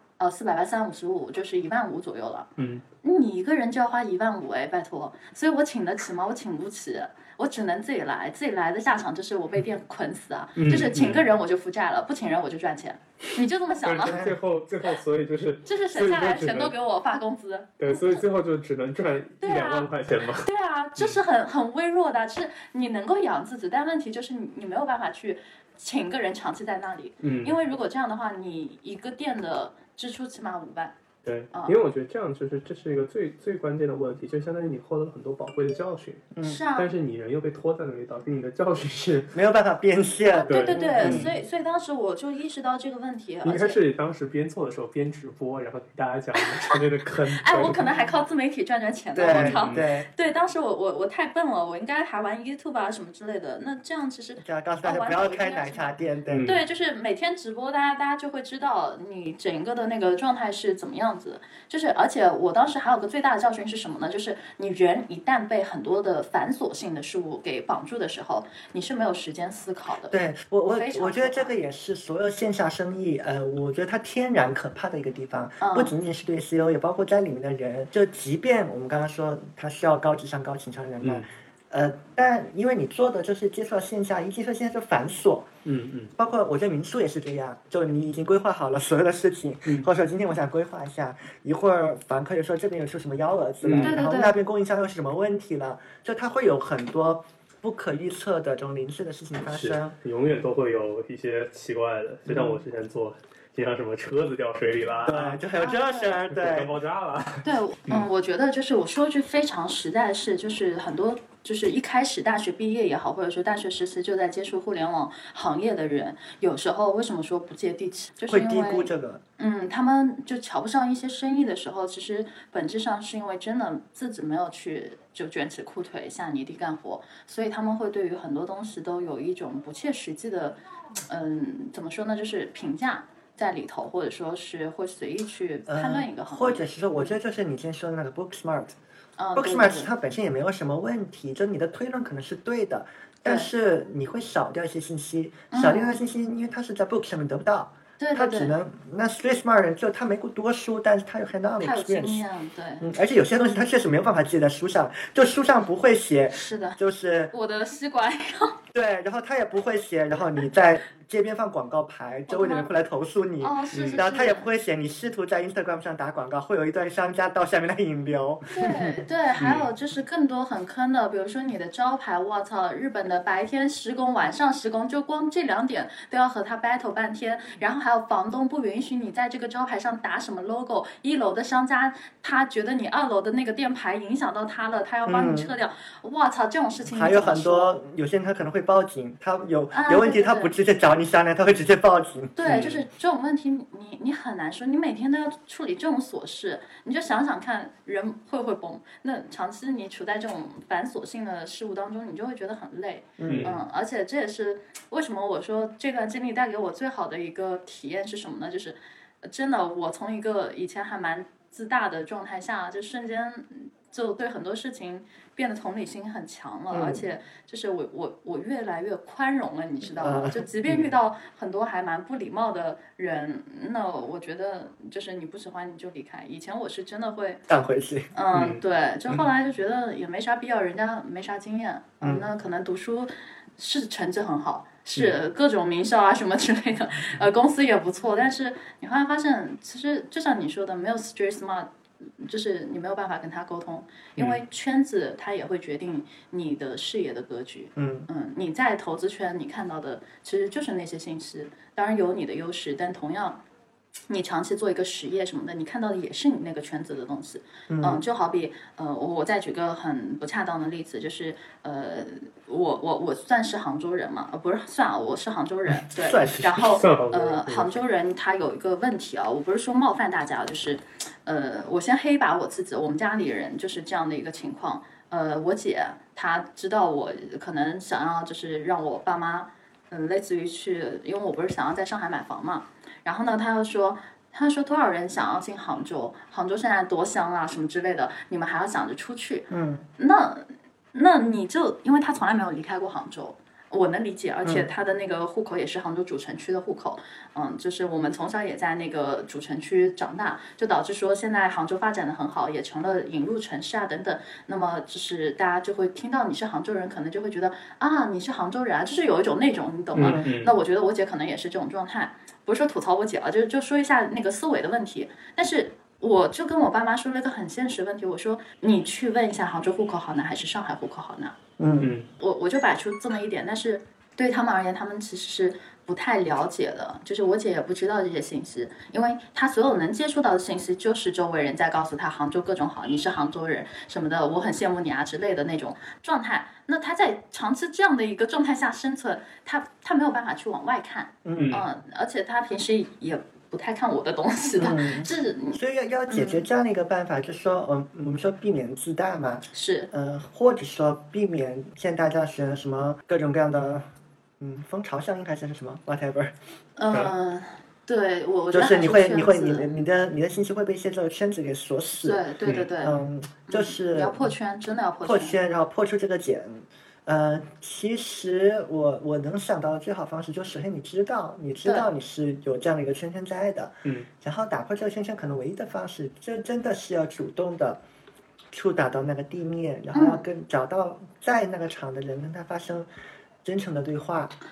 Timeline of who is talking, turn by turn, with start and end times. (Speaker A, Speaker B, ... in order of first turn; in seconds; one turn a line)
Speaker A: 0.2-2.5
Speaker B: 2.6-2.8
Speaker A: 3.0-14.2
Speaker B: 10.6-11.3
Speaker B: 13.8-16.7
Speaker C: 14.1-14.4
Speaker A: 15.7-18.2
Speaker B: 17.8-21.2
Speaker A: 19.4-31.0
Speaker B: 27.2-27.6
Speaker B: 31.2-39.4
Speaker C: 36.3-36.6
Speaker A: 36.4-36.9
Speaker C: 39.3-41.3
Speaker A: 40.3-43.8
Speaker B: 40.5-41.3
Speaker B: 43.5-48.0
Speaker A: 46.4-55.9
Speaker C: 49.1-50.1
Speaker B: 49.3-49.8
Speaker C: 54.4-56.5
Speaker B: 56.3-56.6
Speaker A: 56.4-70.2
Speaker C: 70.1-85.5
Speaker A: 70.7-71.5
Speaker A: 75.6-75.9
Speaker B: 81.0-81.3
Speaker B: 85.7-86.1
Speaker C: 86.2-100.0
Speaker B: 93.6-94.0
Speaker A: 93.7-94.4
Speaker B: 99.5-105.4
Speaker C: 102.3-102.6
Speaker C: 105.0-106.7
Speaker A: 105.6-106.1
Speaker B: 106.3-108.1
Speaker A: 107.4-137.1
Speaker C: 118.3-119.2
Speaker C: 135.7-138.8
Speaker A: 139.2-139.9
Speaker C: 139.3-152.2
Speaker A: 143.2-143.5
Speaker A: 145.5-146.0
Speaker A: 148.0-148.5
Speaker A: 151.6-152.9
Speaker C: 152.8-157.3
Speaker A: 156.3-156.8
Speaker A: 157.3-158.6
Speaker C: 158.7-169.0
Speaker A: 162.3-162.7
Speaker A: 163.4-164.5
Speaker B: 163.7-164.0
Speaker A: 168.5-187.8
Speaker B: 169.4-169.7
Speaker C: 185.1-185.5
Speaker C: 186.9-192.7
Speaker A: 189.7-190.5
Speaker A: 192.4-227.4
Speaker B: 192.5-192.8
Speaker C: 203.2-203.5
Speaker B: 203.3-203.6
Speaker C: 216.7-217.0
Speaker C: 220.0-220.4
Speaker B: 220.7-220.9
Speaker C: 227.5-228.1
Speaker A: 228.1-253.4
Speaker B: 228.3-228.6
Speaker C: 232.0-232.3
Speaker C: 247.8-248.1
Speaker A: 254.1-321.4
Speaker C: 257.7-258.0
Speaker C: 265.9-266.6
Speaker B: 266.6-267.8
Speaker C: 289.5-289.9
Speaker B: 309.9-310.6
Speaker C: 310.0-310.3
Speaker C: 321.6-321.9
Speaker B: 321.8-322.1
Speaker A: 322.2-346.4
Speaker C: 341.2-341.6
Speaker B: 341.4-341.7
Speaker C: 344.6-353.9
Speaker A: 349.5-349.9
Speaker C: 354.4-356.3
Speaker A: 356.8-359.7
Speaker C: 358.5-362.2
Speaker A: 362.0-365.4
Speaker B: 362.5-362.7
Speaker C: 362.8-364.3
Speaker C: 365.0-377.8
Speaker A: 371.6-371.9
Speaker C: 378.5-382.9
Speaker A: 379.9-380.2
Speaker C: 383.4-384.3